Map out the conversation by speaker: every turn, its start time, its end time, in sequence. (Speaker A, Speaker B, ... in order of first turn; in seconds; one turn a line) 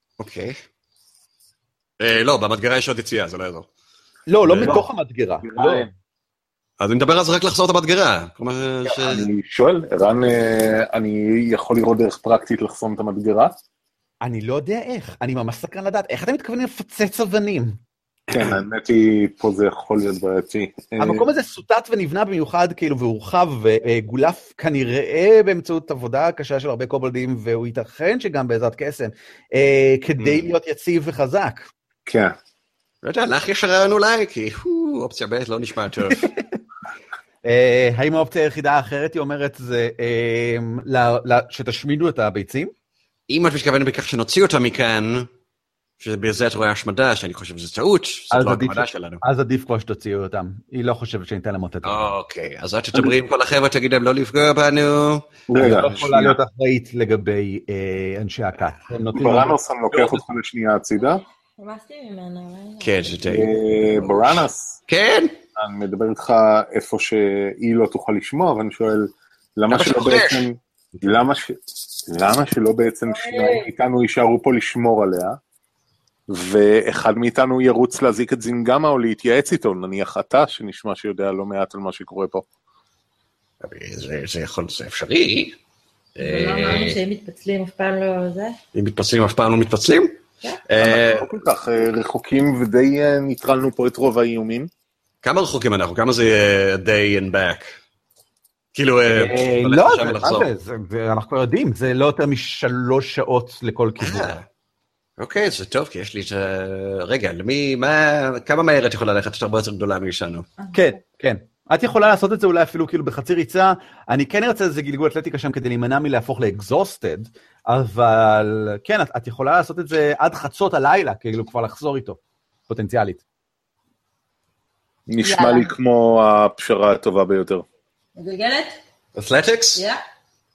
Speaker A: 0.2-0.6
Speaker A: 2.0-3.7
Speaker B: 4.3-5.9
Speaker A: 4.4-4.8
Speaker C: 4.6-4.8
Speaker C: 5.4-5.9
Speaker A: 6.8-9.3
Speaker C: 9.0-13.6
Speaker B: 14.2-17.8
Speaker A: 18.3-18.6
Speaker C: 18.3-21.2
Speaker B: 21.0-31.7
Speaker C: 30.2-30.4
Speaker C: 32.0-32.4
Speaker A: 33.0-36.3
Speaker B: 36.1-36.4
Speaker B: 37.4-42.7
Speaker A: 43.3-45.3
Speaker A: 46.0-49.2
Speaker B: 48.3-52.1
Speaker A: 51.8-55.4
Speaker C: 55.5-56.4
Speaker B: 55.5-60.1
Speaker C: 59.1-61.2
Speaker D: 61.6-63.1
Speaker A: 62.8-65.3
Speaker C: 63.3-64.8
Speaker C: 65.5-75.4
Speaker A: 69.7-70.4
Speaker D: 73.1-73.7
Speaker C: 76.3-82.4
Speaker A: 83.6-85.6
Speaker A: 86.2-87.0
Speaker D: 86.2-88.6
Speaker A: 88.7-91.3
Speaker C: 90.8-94.7
Speaker A: 95.2-97.8
Speaker A: 98.7-100.5
Speaker B: 99.1-104.4
Speaker A: 104.0-104.5
Speaker A: 105.2-110.5
Speaker D: 110.6-110.9
Speaker B: 110.7-123.2
Speaker C: 125.1-127.6
Speaker D: 125.2-125.7
Speaker D: 128.2-128.8
Speaker A: 129.1-129.8
Speaker D: 129.8-130.0